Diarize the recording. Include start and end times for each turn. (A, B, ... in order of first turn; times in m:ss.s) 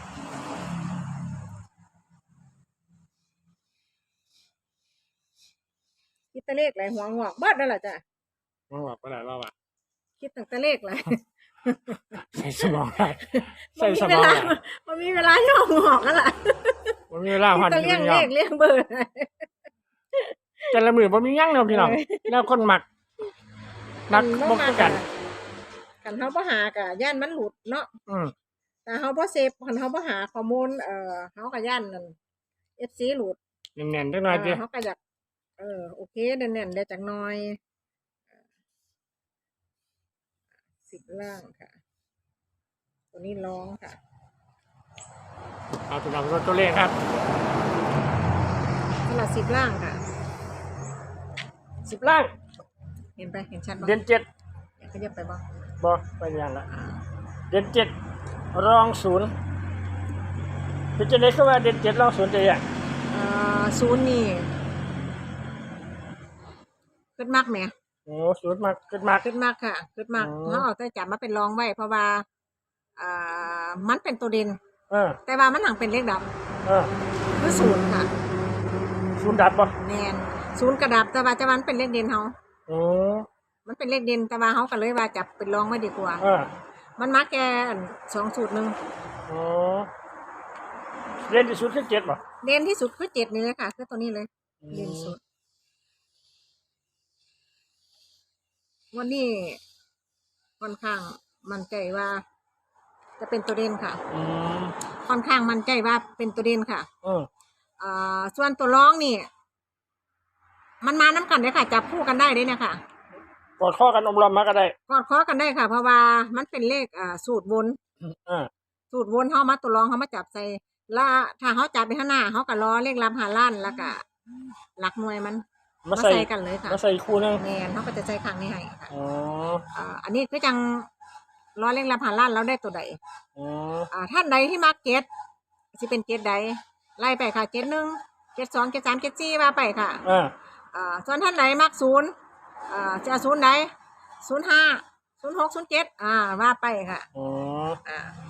0:06.3-0:08.0 A
0:08.7-0:09.5 B
0:10.2-0:12.1 A
0:12.1-0:14.6 B
0:13.3-0:19.5 A
0:17.1-0:18.3 B
0:20.1-0:20.8 A
0:20.7-0:22.8 B
0:21.7-0:22.4 A
0:24.1-0:25.0 B
0:24.1-0:25.1 A
0:26.0-0:27.9 A
0:28.1-0:28.3 B
0:28.9-0:32.2 A
0:32.8-0:33.4 A
0:33.8-0:34.6 B
0:34.3-0:35.0 A
0:35.6-0:37.6 A
0:40.9-0:41.8 A
0:43.1-0:44.0 A
0:45.9-0:47.1 B
0:49.1-0:50.0 A
0:51.8-0:52.3 B
0:53.2-0:54.0 A
0:53.8-0:54.3 B
0:54.8-0:55.5 A
0:55.8-0:56.7 B
0:56.7-0:57.0 A
0:57.5-0:57.9 B
0:58.5-0:59.3 B
1:01.0-1:02.6 B
1:03.1-1:04.5 A
1:07.2-1:07.7 A
1:08.1-1:09.2 B
1:09.2-1:12.2 A
1:10.2-1:10.6 B
1:13.0-1:14.6 A
1:14.9-1:15.2 B
1:15.2-1:16.3 A
1:16.7-1:16.9 B
1:17.3-1:18.1 A
1:19.2-1:19.7 B
1:19.8-1:22.4 A
1:22.7-1:23.3 B
1:23.7-1:26.2 A
1:26.2-1:26.5 B
1:27.0-1:28.8 A
1:29.3-1:29.9 B
1:31.2-1:32.2 B
1:32.4-1:35.2 A
1:34.6-1:35.1 B
1:38.9-1:39.6 A
1:40.6-1:42.2 A
1:43.2-1:44.0 A
1:44.1-1:44.8 B
1:45.0-1:46.9 A
1:47.0-1:47.3 B
1:47.8-1:49.3 A
1:50.8-1:52.8 A
1:53.6-1:54.7 B
1:54.9-1:57.8 A
1:58.0-1:58.5 B
1:58.9-2:04.0 A
2:04.8-2:06.8 A
2:05.8-2:07.4 B
2:07.4-2:08.9 A
2:08.9-2:09.6 B
2:09.7-2:10.9 A
2:11.6-2:13.0 A
2:13.4-2:13.9 B
2:13.9-2:15.1 A
2:15.8-2:20.0 A
2:20.0-2:20.3 B
2:20.7-2:22.1 A
2:22.7-2:23.7 A
2:24.2-2:27.1 A
2:27.2-2:27.8 B
2:27.8-2:28.2 A